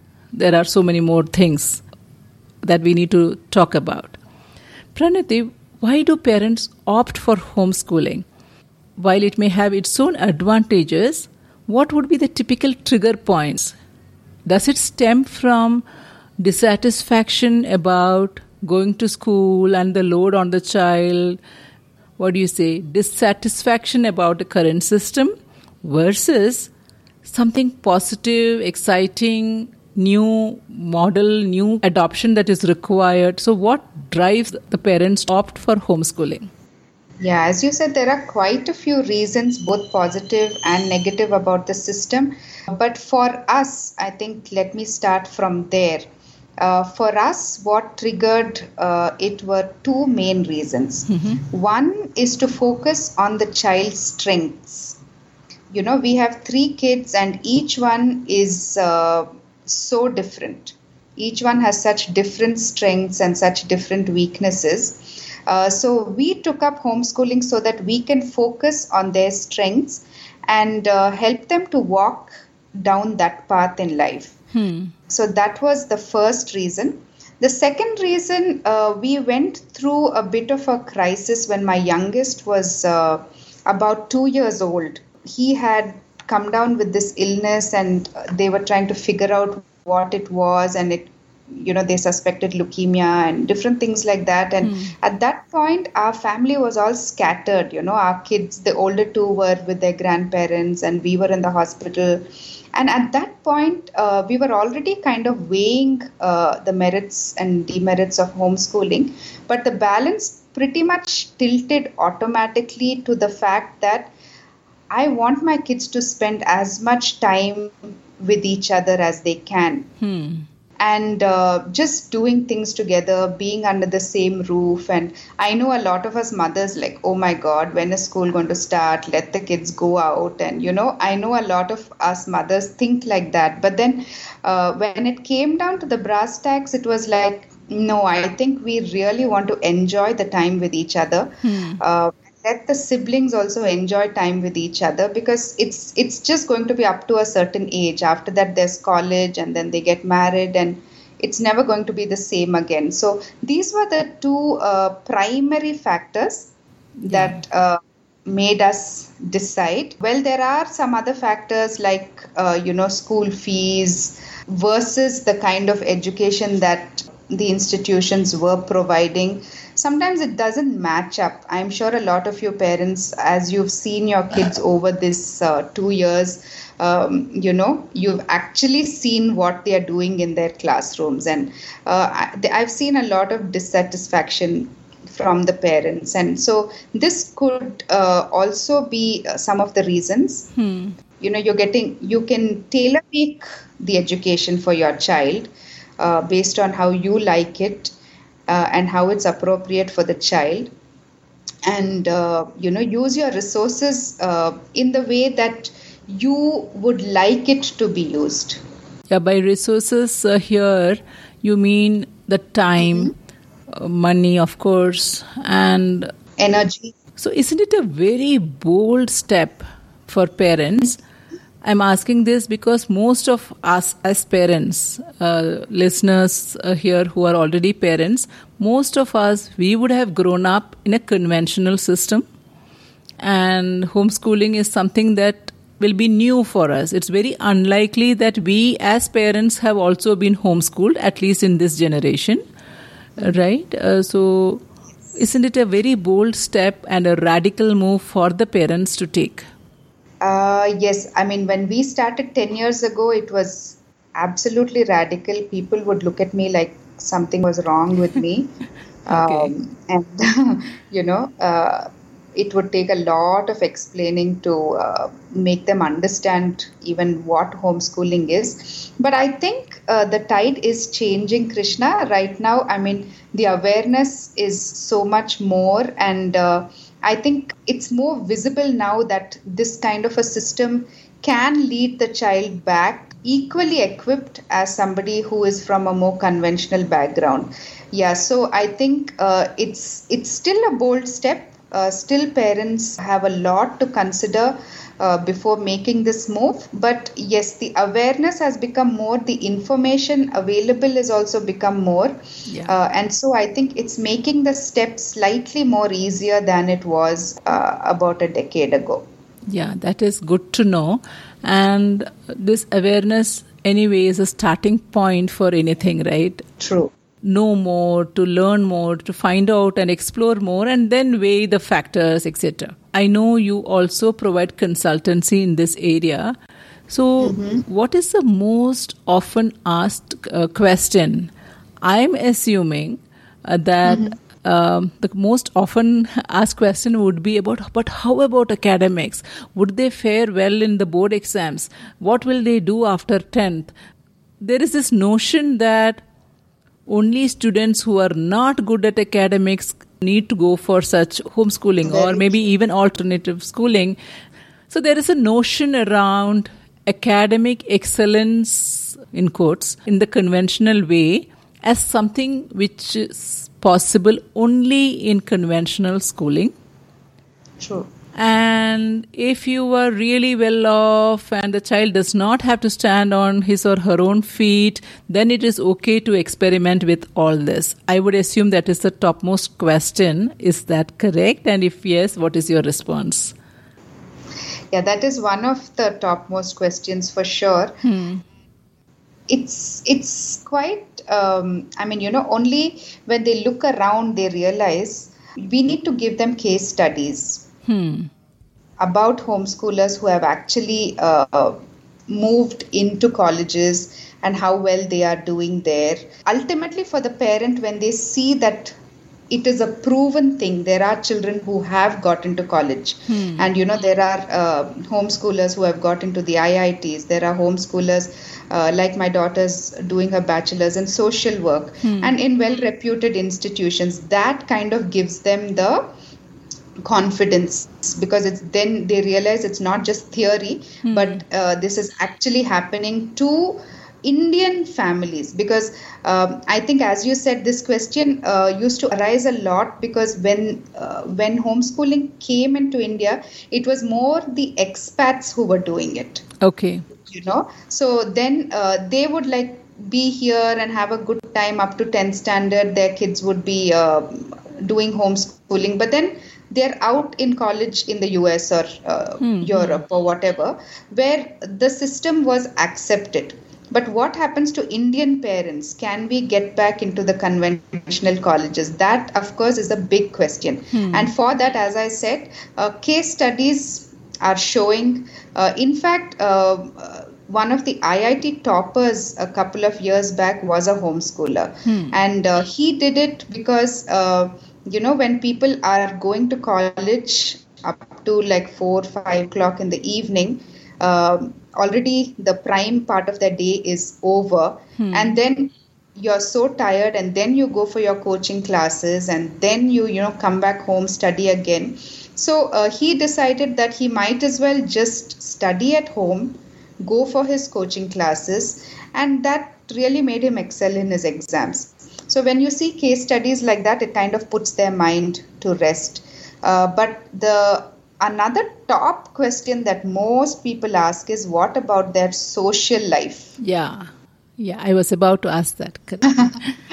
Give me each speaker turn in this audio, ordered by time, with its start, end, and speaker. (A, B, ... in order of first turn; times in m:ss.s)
0:00.3-0:01.8 A
0:02.6-0:04.2 A
0:04.9-0:08.3 A
0:09.0-0:13.8 A
0:14.4-0:15.8 A
0:16.4-0:21.4 A
0:22.2-0:26.7 A
0:27.2-0:36.5 A
0:37.2-0:46.1 B
0:46.6-0:55.0 B
0:51.1-0:51.4 A
0:55.7-1:14.4 B
1:14.5-1:14.9 A
1:15.1-1:54.1 B
1:34.6-1:34.9 A
1:54.9-1:59.9 B
2:00.0-2:00.5 A
2:00.8-3:10.5 B
2:21.4-2:21.8 A
2:37.1-2:37.4 A
3:10.6-3:11.0 A
3:11.2-3:17.9 B
3:18.5-3:20.7 B
3:21.6-3:28.6 B
3:29.1-3:33.1 A
3:32.8-3:33.1 B
3:33.7-3:36.1 A
3:36.4-3:36.9 B
3:37.2-3:41.0 A
3:41.6-3:52.2 A
3:53.2-4:02.4 A
4:03.2-4:04.6 A
4:05.1-4:09.4 A
4:10.2-4:18.5 B
4:19.0-5:02.2 B
4:19.1-4:19.5 A
5:02.7-5:09.0 B
5:09.5-5:16.4 A
5:16.6-5:16.9 B
5:17.2-5:26.4 A
5:26.9-5:31.3 A
5:27.2-5:27.6 B
5:31.8-5:43.7 A
5:33.8-5:34.2 B
5:44.4-5:46.0 A
5:46.9-5:54.0 A
5:51.9-5:52.4 B
5:54.7-6:06.5 A
6:07.6-6:07.9 B
6:08.1-6:23.4 A
6:24.7-6:27.7 B
6:27.8-6:28.2 A
6:29.3-6:37.5 B
6:37.7-6:38.1 A
6:38.8-6:41.6 B
6:42.1-6:48.8 B
6:49.3-7:05.8 B
6:53.1-6:53.4 A
7:01.8-7:02.1 A
7:06.8-7:26.2 B
7:10.8-7:11.2 A
7:26.4-7:26.9 A
7:27.1-8:43.4 B
7:39.2-7:39.8 A
7:50.7-7:51.1 A
8:01.6-8:02.0 A
8:14.8-8:15.1 A
8:43.4-8:46.5 A
8:46.1-8:46.4 B